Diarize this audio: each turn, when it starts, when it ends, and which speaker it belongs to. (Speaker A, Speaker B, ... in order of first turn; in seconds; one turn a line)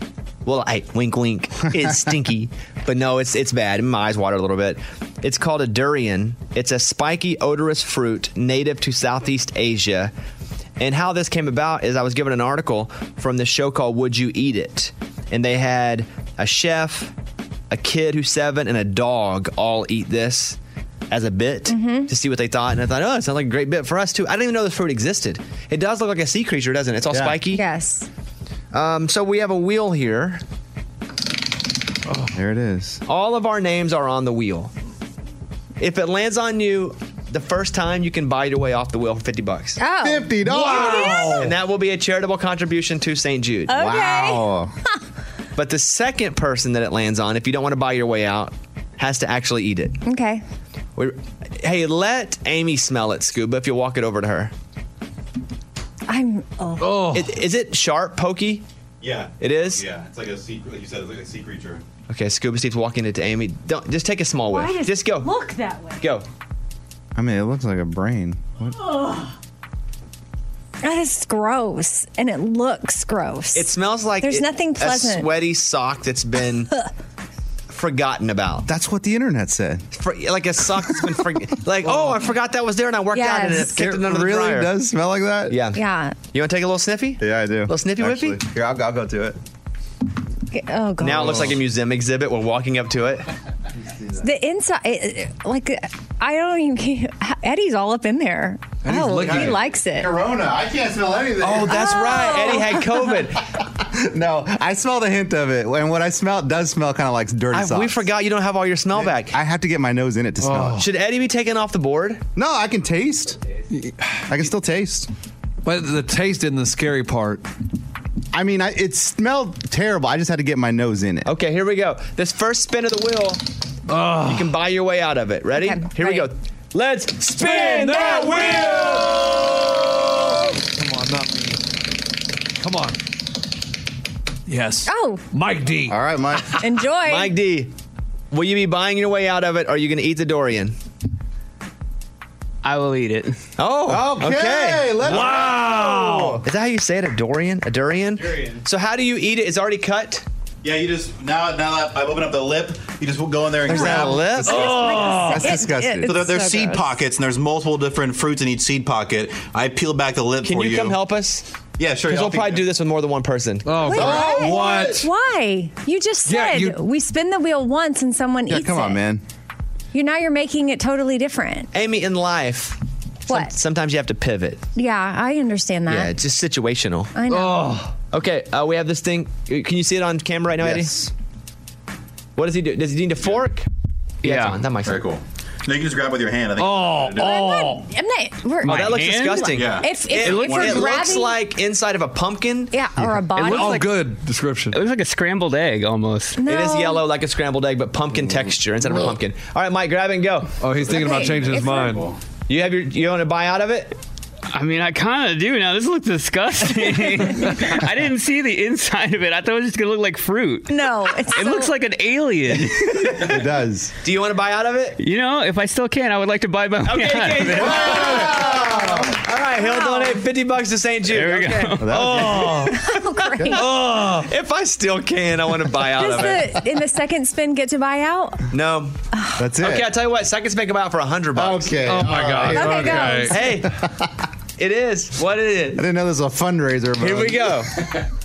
Speaker A: 0.5-10.1
Speaker A: 10.8-17.1
Speaker A: 17.7-20.6
Speaker A: 21.1-27.6
Speaker B: 21.7-22.1
Speaker C: 27.1-27.4
Speaker B: 27.5-28.1
Speaker A: 28.7-30.4
Speaker C: 32.3-33.0
Speaker A: 33.1-34.7
Speaker A: 35.8-39.8
Speaker B: 39.8-41.4
Speaker C: 40.0-41.5
Speaker D: 40.5-41.5
Speaker A: 41.3-43.8
Speaker B: 43.7-44.5
Speaker C: 43.7-44.7
Speaker A: 45.5-50.0
Speaker B: 50.1-50.4
Speaker A: 51.0-54.5
Speaker B: 56.1-57.0
Speaker D: 56.8-57.4
Speaker A: 57.1-58.7
Speaker E: 59.0-61.8
Speaker A: 59.4-59.8
Speaker A: 62.1-65.4
Speaker B: 64.5-66.0
Speaker A: 66.0-66.2
Speaker C: 67.2-69.0
Speaker B: 70.8-75.3
Speaker A: 73.5-76.7
Speaker A: 77.7-78.7
Speaker C: 78.7-79.8
Speaker A: 79.9-84.7
Speaker B: 83.1-83.7
Speaker C: 83.6-85.6
Speaker A: 85.5-88.4
Speaker B: 85.8-86.2
Speaker C: 87.2-89.4
Speaker B: 90.5-91.5
Speaker A: 91.0-93.3
Speaker C: 94.0-94.2
Speaker B: 94.2-100.1
Speaker D: 98.8-99.6
Speaker C: 99.2-102.0
Speaker A: 101.4-103.4
Speaker B: 101.7-103.0
Speaker C: 103.9-108.1
Speaker A: 107.5-109.4
Speaker C: 108.9-110.8
Speaker D: 110.4-110.9
Speaker A: 110.8-112.2
Speaker C: 112.4-113.4
Speaker D: 113.7-114.2
Speaker C: 114.3-115.1
Speaker D: 115.6-117.5
Speaker C: 118.3-121.3
Speaker A: 121.2-123.4
Speaker D: 123.9-124.6
Speaker A: 124.2-128.7
Speaker B: 125.5-126.3
Speaker D: 127.4-131.7
Speaker B: 127.4-128.9
Speaker D: 132.6-133.0
Speaker D: 134.5-136.4
Speaker B: 134.9-135.2
Speaker C: 135.9-136.6
Speaker B: 136.6-137.4
Speaker A: 137.0-137.7
Speaker A: 138.3-140.8
Speaker F: 142.6-143.4
Speaker A: 143.6-145.4
Speaker C: 143.8-146.4
Speaker D: 145.1-146.4
Speaker A: 146.4-150.2
Speaker E: 150.6-154.2
Speaker A: 153.7-155.1
Speaker C: 153.7-156.2
Speaker B: 153.8-156.9
Speaker D: 154.5-155.5
Speaker E: 156.1-161.0
Speaker A: 160.4-161.5
Speaker E: 161.8-162.7
Speaker A: 162.0-164.2
Speaker D: 163.7-165.1
Speaker C: 163.9-165.0
Speaker B: 163.9-169.0
Speaker D: 166.3-166.8
Speaker C: 168.5-169.2
Speaker B: 169.9-171.7
Speaker A: 171.7-174.6
Speaker B: 173.3-173.5
Speaker B: 174.8-176.1
Speaker A: 175.9-177.2
Speaker B: 177.1-177.8
Speaker D: 177.3-177.9
Speaker A: 178.1-181.1
Speaker C: 180.6-180.9
Speaker A: 182.4-183.7
Speaker F: 184.2-184.6
Speaker A: 184.2-185.0
Speaker E: 184.8-187.5
Speaker D: 186.6-187.8
Speaker B: 187.1-191.4
Speaker F: 188.6-189.6
Speaker A: 188.6-192.8
Speaker E: 189.5-190.8
Speaker F: 190.2-190.7
Speaker B: 192.7-193.9
Speaker C: 193.0-193.3
Speaker F: 193.4-193.8
Speaker A: 193.4-193.8
Speaker D: 193.4-194.8
Speaker F: 194.7-196.4
Speaker B: 196.4-197.0
Speaker A: 196.5-200.6
Speaker D: 200.6-202.1
Speaker B: 200.9-202.0
Speaker E: 200.9-202.2
Speaker A: 202.5-204.0
Speaker F: 204.5-213.0
Speaker B: 210.7-211.7
Speaker A: 213.0-213.5
Speaker C: 213.0-213.9
Speaker A: 214.0-215.0
Speaker F: 215.0-217.8
Speaker A: 216.8-226.6
Speaker C: 217.4-219.2
Speaker B: 219.6-220.2
Speaker F: 221.1-222.5
Speaker C: 221.8-222.7
Speaker B: 222.5-223.9
Speaker D: 223.6-224.2
Speaker B: 225.8-228.5
Speaker A: 228.5-229.0
Speaker B: 229.2-229.5
Speaker C: 229.4-229.9
Speaker A: 229.6-233.7
Speaker C: 231.3-234.1
Speaker D: 231.8-233.3
Speaker B: 232.5-233.5
Speaker A: 234.6-235.8
Speaker C: 235.8-237.6
Speaker A: 237.0-237.8